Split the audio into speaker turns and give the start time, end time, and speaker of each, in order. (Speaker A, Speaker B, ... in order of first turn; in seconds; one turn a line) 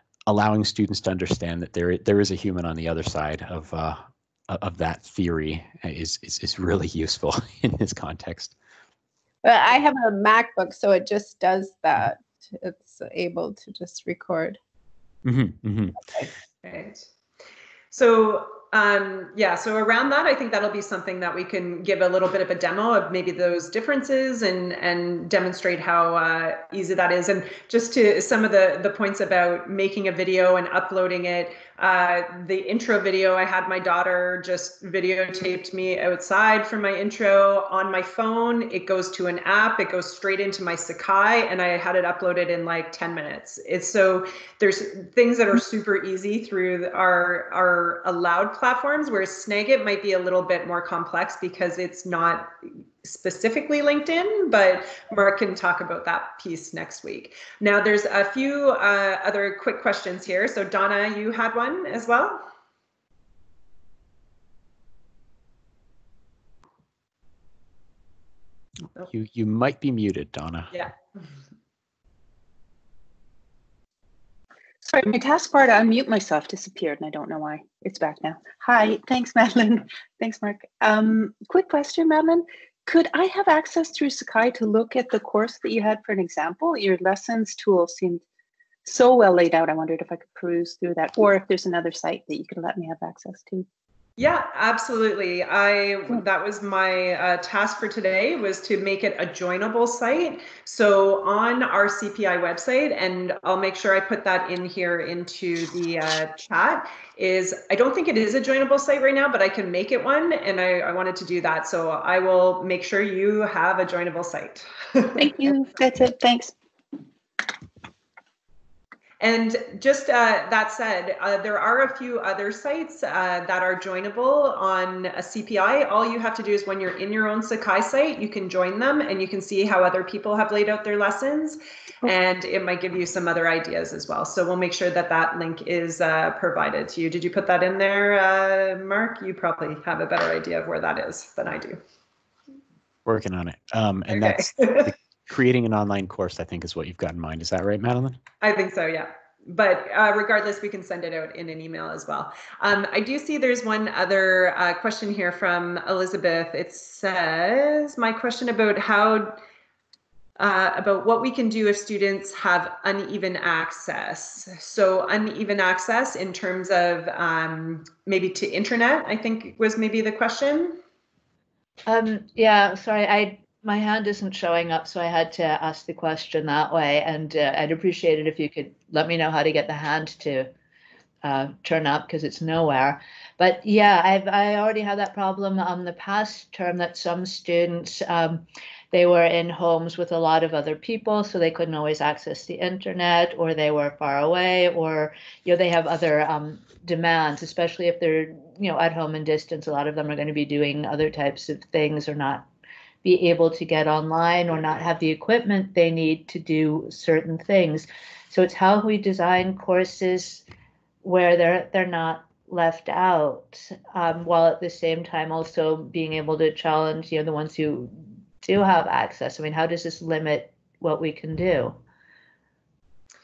Speaker A: 0.3-8.5
Speaker B: 9.4-14.6
Speaker A: 15.2-16.0
Speaker C: 16.6-17.1
Speaker C: 17.9-62.4
Speaker A: 69.1-70.8
Speaker D: 74.8-88.2
Speaker D: 88.8-93.7
Speaker C: 94.2-115.2
Speaker D: 115.2-116.5
Speaker C: 119.2-141.8
Speaker A: 143.0-148.2
Speaker C: 144.1-144.9
Speaker C: 148.4-159.4
Speaker C: 160.4-170.8
Speaker E: 171.9-180.5
Speaker E: 181.2-202.5
Speaker E: 203.0-210.4
Speaker E: 211.0-221.8